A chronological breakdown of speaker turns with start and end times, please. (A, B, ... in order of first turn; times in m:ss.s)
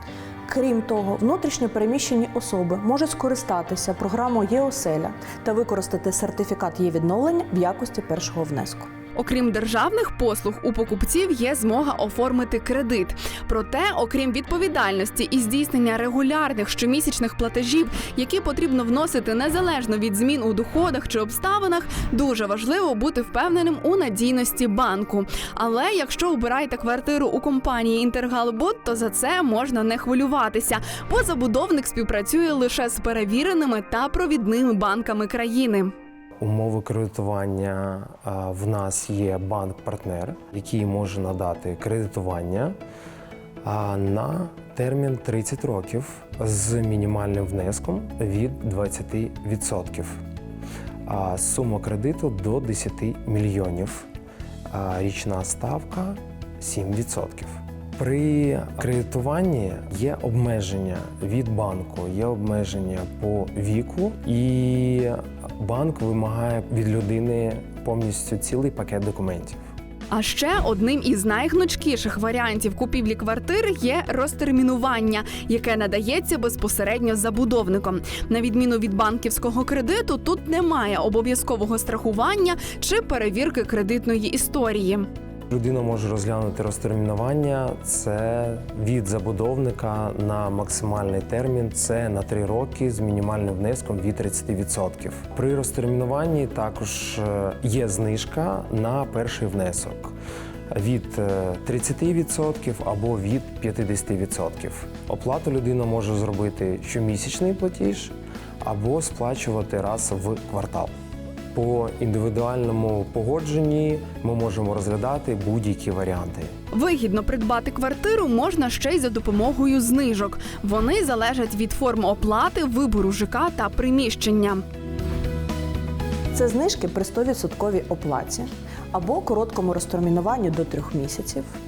0:00.5-0:08.9 A
0:09.2-0:35.9 B
0:36.4-0:42.8 C
0:43.6-0:50.2 C
0:51.1-0:54.1 C
0:54.7-1:09.6 C
1:10.1-1:25.1 B
1:25.5-1:40.2 C
1:40.7-1:50.9 C
1:51.5-1:56.5 C
1:56.7-2:04.6 B
2:06.3-2:11.5 A